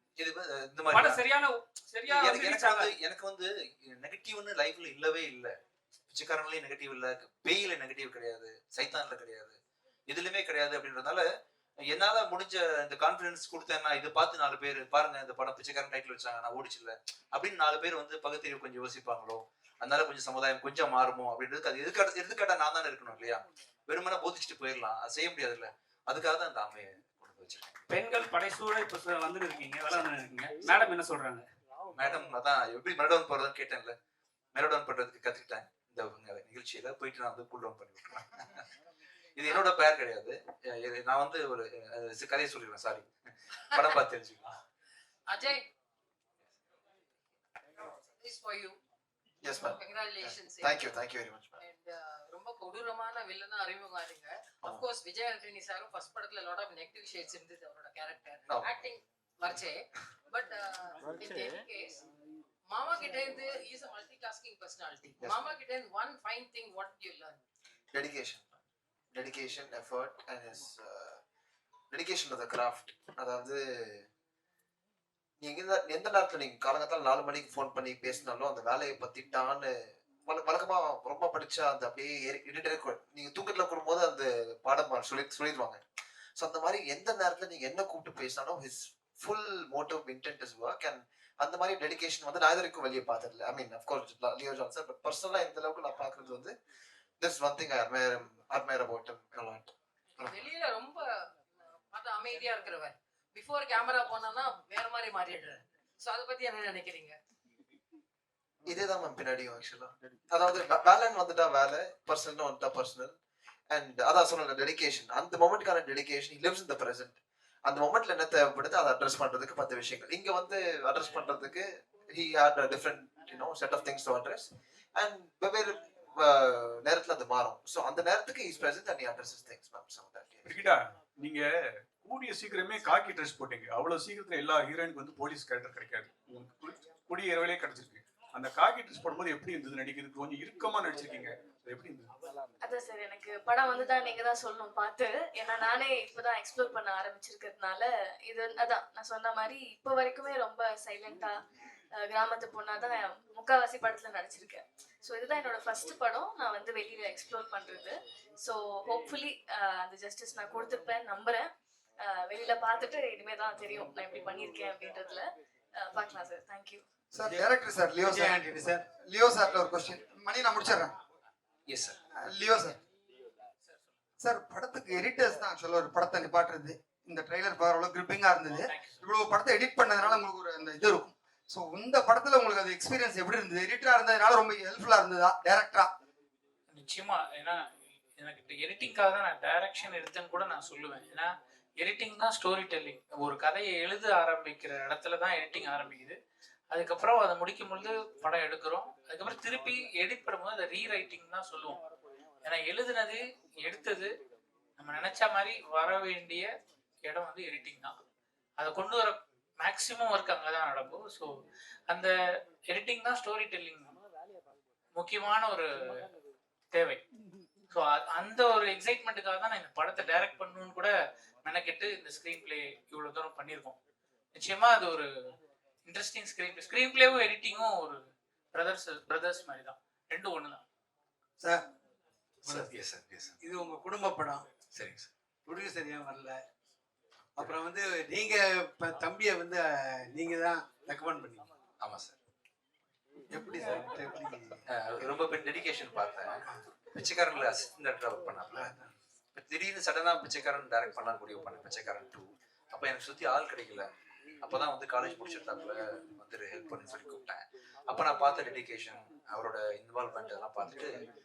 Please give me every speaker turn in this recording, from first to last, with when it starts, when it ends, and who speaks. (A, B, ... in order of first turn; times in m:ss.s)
0:00.2-0:01.2 A
0:00.9-0:03.0 B
0:02.1-0:05.5 A
0:06.1-0:09.6 A
0:10.1-0:11.2 A
0:11.8-0:27.9 A
0:27.9-0:31.4 B
0:31.9-0:33.9 A
0:34.5-0:38.7 A
0:39.4-0:44.5 A
0:45.3-0:45.7 C
0:47.8-0:48.8 C
0:49.4-0:51.6 D
0:49.8-0:50.9 C
0:51.6-1:02.0 C
0:58.5-0:58.8 D
1:02.7-1:07.4 C
1:07.9-1:08.5 D
1:09.1-1:11.2 D
1:11.9-1:14.0 D
1:15.4-1:19.7 D
1:20.2-1:25.8 D
1:26.4-1:36.6 D
1:37.2-1:40.3 D
1:40.3-1:41.3 C
1:41.9-1:47.2 C
1:48.6-1:53.2 D
1:53.7-2:10.6 D
2:10.4-2:11.5 E
2:12.0-2:22.1 E
2:22.6-2:31.3 F
2:32.0-2:41.5 F
2:42.0-2:45.3 F
2:45.8-2:46.8 F
2:47.1-2:50.9 G
2:51.7-2:51.9 A
2:52.2-2:52.8 G
2:54.2-3:05.9 G
2:58.5-2:59.0 H
3:06.7-3:16.2 H
3:16.7-3:21.8 H
3:22.4-3:24.1 H
3:24.8-3:26.5 H
3:27.0-3:27.9 H
3:28.6-3:31.3 H
3:32.7-3:34.0 H
3:34.9-3:36.0 H
3:36.7-3:37.0 H
3:37.7-3:43.8 H
3:44.3-3:45.1 H
3:45.8-3:48.0 H
3:48.5-3:50.6 H
3:52.5-3:53.3 A
3:53.4-3:54.4 I
3:54.7-3:55.1 A
3:55.5-3:56.3 I
3:57.4-3:59.6 I
4:00.1-4:01.5 I
4:01.8-4:02.1 A
4:03.3-4:04.5 I
4:04.7-4:08.8 A
4:09.3-4:13.9 A
4:14.4-4:20.9 A